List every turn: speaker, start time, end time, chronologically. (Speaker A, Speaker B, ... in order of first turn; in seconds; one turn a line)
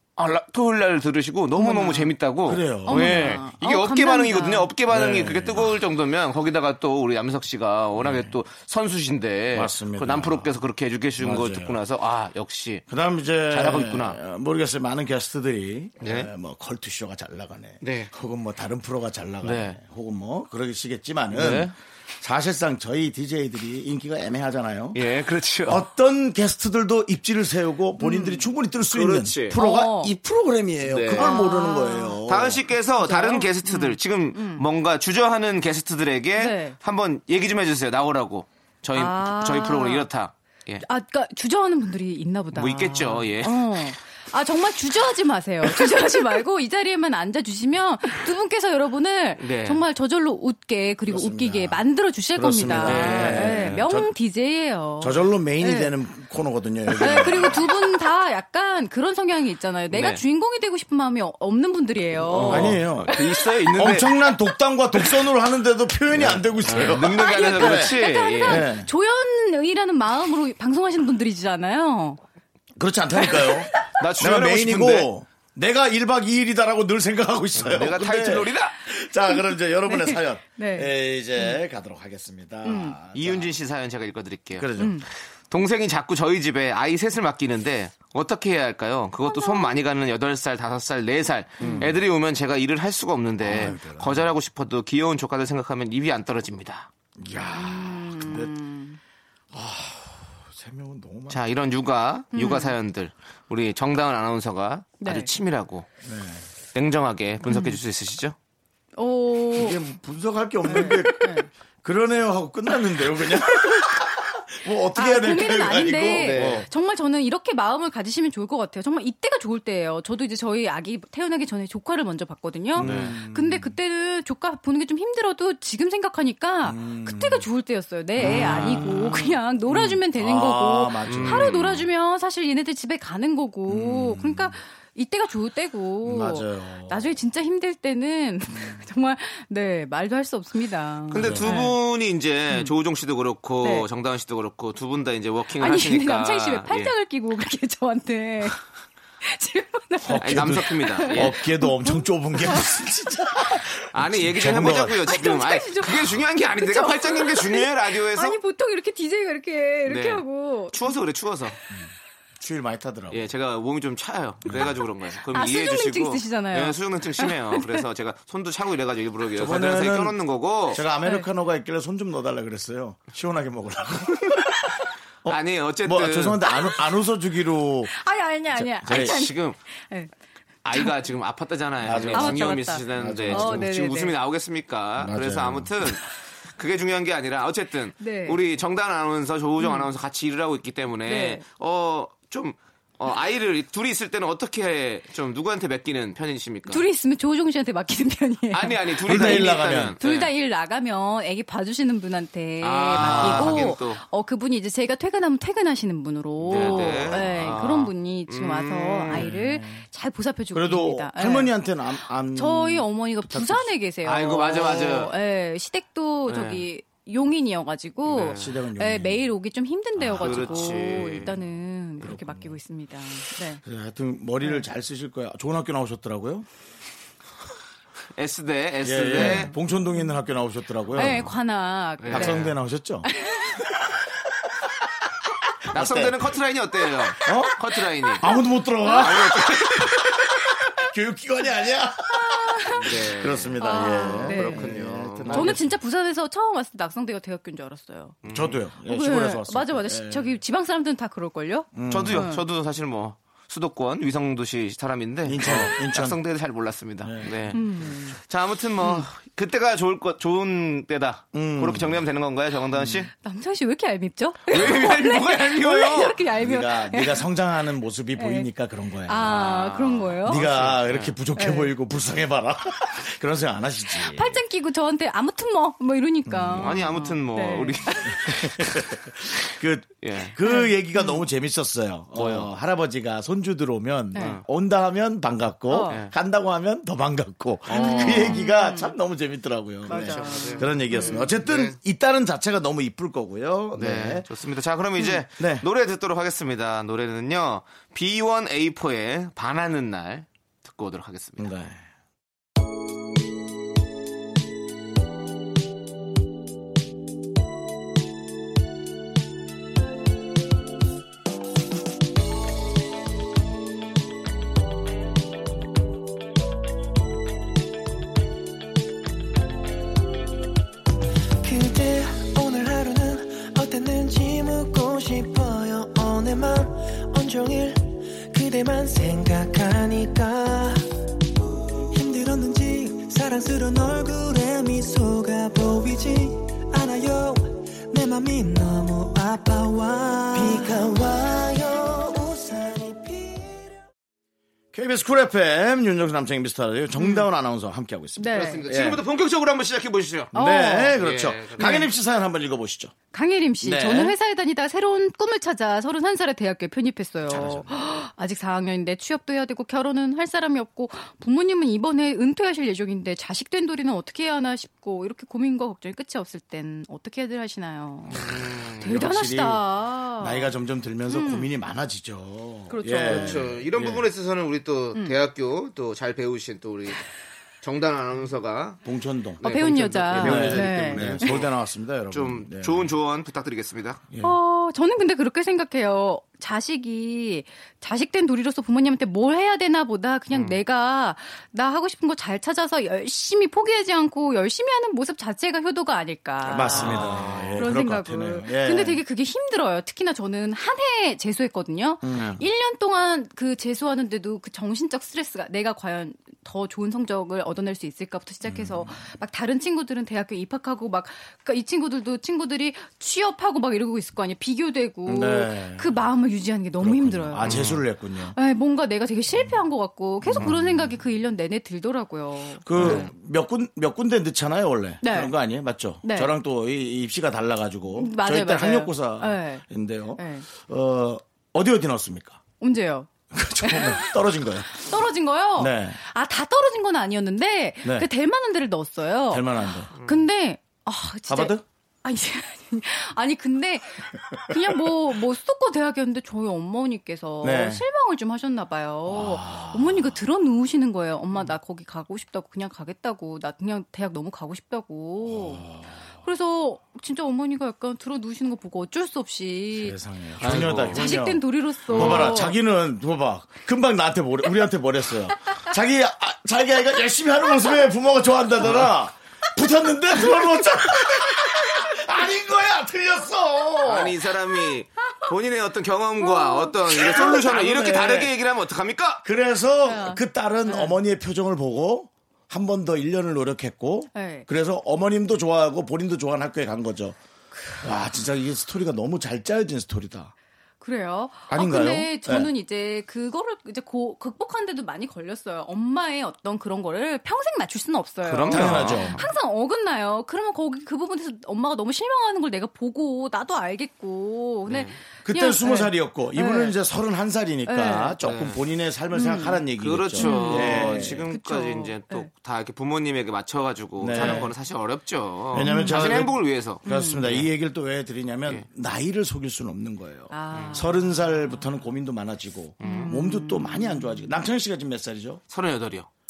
Speaker A: 0.2-12.8
Speaker B: 1.5-2.1
Speaker C: 2.5-3.3
Speaker B: 2.8-4.7
Speaker C: 4.9-5.8
Speaker C: 8.0-8.3
Speaker C: 9.5-10.5
Speaker C: 11.2-11.8
Speaker C: 12.9-25.0
Speaker A: 13.5-14.2
Speaker A: 16.0-16.3
Speaker A: 17.8-18.1
Speaker A: 19.4-19.8
Speaker A: 21.3-21.7
Speaker A: 24.9-25.8
Speaker C: 25.6-32.6
Speaker B: 28.0-28.5
Speaker A: 28.9-29.6
Speaker B: 29.5-30.1
Speaker A: 30.9-31.4
Speaker B: 31.0-32.2
Speaker A: 32.2-40.8
Speaker B: 33.0-34.6
Speaker B: 36.4-36.8
Speaker B: 38.9-40.1
Speaker B: 40.8-55.9
Speaker A: 42.5-43.6
Speaker A: 49.4-49.8
Speaker C: 51.1-51.8
Speaker C: 52.3-54.1
Speaker A: 52.8-53.8
Speaker C: 55.0-57.6
Speaker B: 56.9-63.7
Speaker A: 59.9-60.2
Speaker A: 62.2-64.1
Speaker C: 62.3-63.1
Speaker C: 63.7-68.9
Speaker A: 66.2-68.7
Speaker B: 67.0-72.2
Speaker C: 72.8-83.5
Speaker B: 73.2-73.6
Speaker A: 74.0-75.1
Speaker A: 77.6-78.8
Speaker B: 79.8-81.6
Speaker B: 82.6-83.0
Speaker A: 83.1-84.8
Speaker C: 84.6-85.0
Speaker B: 84.8-85.1
Speaker A: 85.5-96.9
Speaker B: 89.2-89.8
Speaker C: 91.6-92.0
Speaker B: 91.6-91.9
Speaker C: 93.4-94.3
Speaker C: 97.2-98.5
Speaker B: 97.5-99.0
Speaker C: 99.5-101.4
Speaker A: 101.3-105.9
Speaker B: 102.3-102.8
Speaker B: 105.0-105.3
Speaker C: 106.0-106.4
Speaker A: 106.7-108.3
Speaker B: 107.4-107.8
Speaker B: 109.0-109.8
Speaker C: 109.5-116.7
Speaker B: 110.6-111.5
Speaker B: 114.9-141.8
Speaker A: 116.1-116.7
Speaker C: 122.7-123.7
Speaker A: 122.8-123.2
Speaker C: 126.6-127.5
Speaker C: 128.2-131.7
Speaker A: 131.1-131.8
Speaker C: 133.7-134.6
Speaker C: 136.0-137.1
Speaker C: 138.5-138.8
Speaker A: 141.1-146.9
Speaker C: 141.2-141.5
Speaker B: 143.6-143.9
Speaker B: 145.6-148.6
Speaker B: 149.2-153.2
Speaker C: 150.0-155.2
Speaker A: 150.2-151.4
Speaker A: 153.9-158.4
Speaker B: 154.8-160.9
Speaker A: 159.8-161.6
Speaker C: 162.4-163.3
Speaker A: 163.1-170.8
Speaker C: 164.4-164.7
Speaker B: 165.2-167.8
Speaker C: 169.3-170.2
Speaker C: 170.7-177.9
Speaker A: 175.3-176.4
Speaker B: 177.9-180.1
Speaker C: 178.5-179.2
Speaker A: 178.8-179.6
Speaker A: 180.6-186.0
Speaker C: 181.8-183.7
Speaker B: 182.1-184.2
Speaker C: 185.0-185.7
Speaker A: 186.6-196.8
Speaker B: 188.0-188.4
Speaker B: 189.6-189.9
Speaker B: 191.0-191.4
Speaker B: 196.7-211.6
Speaker A: 198.5-200.3
Speaker C: 199.1-200.0
Speaker A: 202.6-204.0
Speaker C: 203.0-203.7
Speaker A: 206.4-209.3
Speaker C: 206.5-207.6
Speaker C: 209.1-209.8
Speaker C: 210.5-213.7
Speaker B: 212.3-223.6
Speaker A: 214.0-215.1
Speaker A: 216.3-216.7
Speaker A: 218.1-218.5
Speaker C: 218.3-219.2
Speaker C: 219.9-220.8
Speaker A: 220.1-221.3
Speaker C: 222.0-222.6
Speaker C: 223.6-226.4
Speaker A: 228.2-229.5
Speaker C: 228.8-231.3
Speaker B: 229.2-229.6
Speaker B: 230.9-232.5
Speaker A: 232.0-232.6
Speaker C: 232.1-233.1
Speaker B: 233.0-233.7
Speaker A: 235.7-238.3
Speaker C: 235.7-236.3
Speaker C: 237.2-237.5
Speaker C: 238.2-245.8
Speaker B: 238.2-239.1
Speaker A: 238.8-240.0
Speaker B: 242.2-243.0
Speaker A: 242.7-245.6
Speaker B: 243.6-248.2
Speaker A: 248.2-248.6
Speaker C: 248.3-250.3
Speaker B: 248.8-252.4
Speaker C: 251.7-252.3
Speaker A: 251.9-257.6
Speaker C: 255.2-256.2
Speaker C: 257.0-257.7
Speaker B: 257.5-258.2
Speaker A: 258.1-263.1
Speaker B: 258.8-259.1
Speaker C: 261.3-262.0
Speaker C: 262.7-263.0
Speaker B: 263.1-267.3
Speaker A: 264.5-266.2
Speaker C: 266.4-269.5
Speaker B: 268.1-268.5
Speaker B: 269.0-270.7
Speaker A: 269.2-271.1
Speaker C: 270.2-274.4
Speaker B: 271.4-271.7
Speaker B: 273.9-278.5
Speaker C: 276.2-276.9
Speaker A: 276.5-278.8
Speaker C: 278.2-294.2
Speaker A: 280.0-280.4
Speaker B: 280.4-281.2
Speaker A: 282.1-282.5
Speaker B: 284.1-284.4
Speaker A: 284.1-284.4
Speaker B: 285.7-286.0
Speaker A: 287.7-288.4
Speaker B: 287.7-288.9
Speaker B: 289.9-291.4
Speaker A: 289.9-291.8
Speaker A: 293.8-301.5
Speaker C: 295.4-295.6
Speaker C: 301.4-301.8
Speaker D: 321.4-330.9
Speaker D: 331.9-343.6
Speaker C: 344.7-349.0
Speaker B: 347.0-347.2
Speaker B: 348.2-348.6
Speaker A: 348.3-350.4
Speaker C: 350.3-352.9
Speaker B: 350.3-351.0
Speaker A: 350.9-351.8
Speaker B: 351.6-351.9
Speaker B: 353.1-370.5
Speaker C: 353.6-354.1
Speaker C: 357.3-357.7
Speaker C: 368.1-369.6
Speaker A: 368.1-368.9
Speaker C: 370.2-374.1
Speaker B: 371.1-371.5
Speaker B: 372.7-373.5
Speaker A: 373.0-377.0
Speaker A: 377.6-378.8
Speaker C: 378.8-379.4
Speaker A: 379.4-381.5
Speaker B: 379.4-381.4
Speaker C: 380.1-382.9
Speaker A: 382.1-384.0
Speaker C: 384.1-384.4
Speaker B: 384.2-417.7
Speaker A: 390.3-390.6
Speaker C: 396.4-399.0
Speaker A: 396.6-397.6
Speaker C: 402.0-402.4
Speaker C: 408.4-409.0
Speaker C: 415.1-416.0
Speaker C: 416.8-418.4
Speaker A: 417.4-417.8
Speaker B: 418.2-423.0
Speaker C: 420.2-421.0
Speaker C: 422.6-432.4
Speaker A: 422.8-423.1
Speaker B: 425.0-425.4
Speaker B: 426.0-426.3
Speaker B: 427.9-429.6
Speaker B: 430.2-430.5
Speaker B: 432.6-433.1
Speaker C: 433.3-434.9
Speaker B: 433.6-455.6
Speaker C: 435.6-436.0
Speaker C: 439.3-439.9
Speaker C: 441.3-441.6
Speaker C: 447.4-447.9
Speaker C: 449.1-450.1
Speaker C: 455.3-456.0
Speaker B: 456.2-462.6
Speaker C: 459.8-474.2
Speaker A: 460.4-461.1
Speaker A: 461.9-462.4
Speaker A: 468.6-468.9
Speaker A: 473.8-479.2
Speaker B: 476.2-476.7
Speaker C: 476.9-478.3
Speaker C: 479.2-487.2
Speaker B: 479.9-481.0
Speaker B: 484.1-484.4
Speaker B: 487.5-487.8
Speaker C: 487.8-490.3
Speaker B: 490.8-506.8
Speaker C: 491.5-492.5
Speaker A: 498.2-499.2
Speaker C: 498.5-499.2
Speaker A: 504.7-505.0
Speaker C: 505.2-511.2
Speaker B: 507.6-508.2
Speaker A: 508.2-508.6
Speaker B: 509.1-512.3
Speaker A: 509.8-517.5
Speaker C: 514.0-514.5
Speaker B: 514.1-514.4
Speaker C: 515.5-525.4
Speaker B: 515.5-516.1
Speaker B: 516.8-517.3
Speaker B: 520.3-521.6
Speaker A: 520.5-520.8
Speaker A: 522.8-523.1
Speaker B: 522.8-524.4
Speaker A: 525.5-526.1